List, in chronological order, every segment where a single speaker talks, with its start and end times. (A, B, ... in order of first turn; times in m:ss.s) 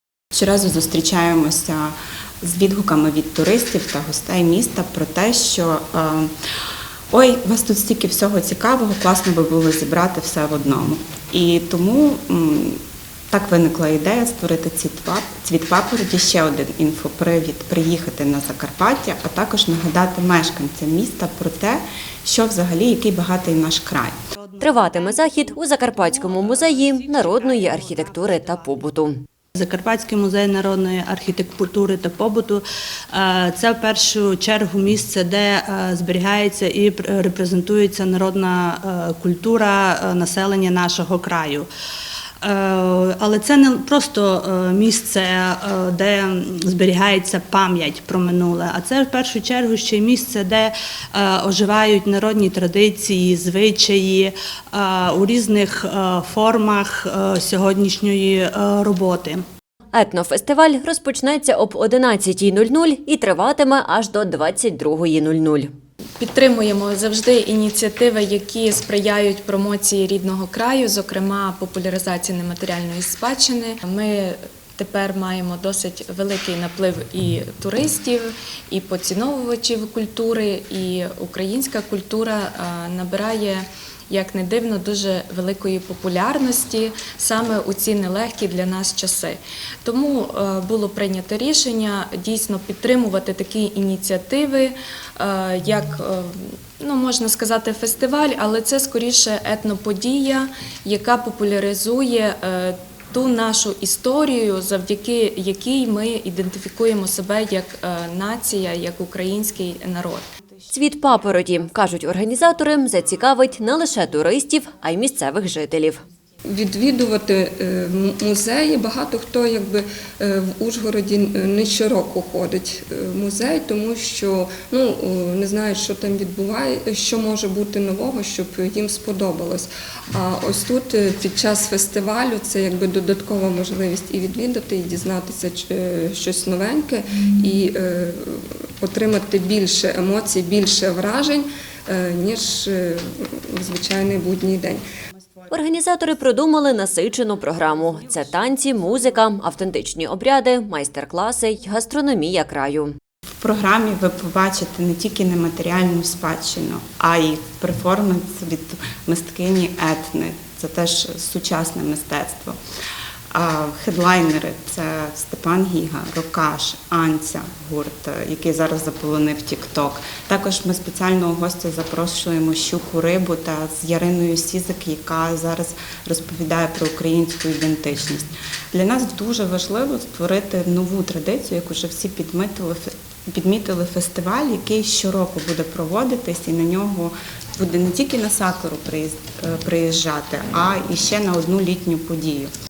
0:00.3-0:06.3 A
0:07.1-0:12.8 A
0:13.3-0:24.2 A
0:24.3-0:28.7 B
0:24.6-0:29.2 C
0:29.5-0:41.7 B
0:42.4-0:59.4 B
0:59.9-1:05.7 C
1:06.2-1:50.3 D
1:50.7-1:56.0 C
1:56.4-2:24.8 E
2:25.5-2:33.0 C
2:33.4-2:42.6 A
2:43.3-3:12.5 A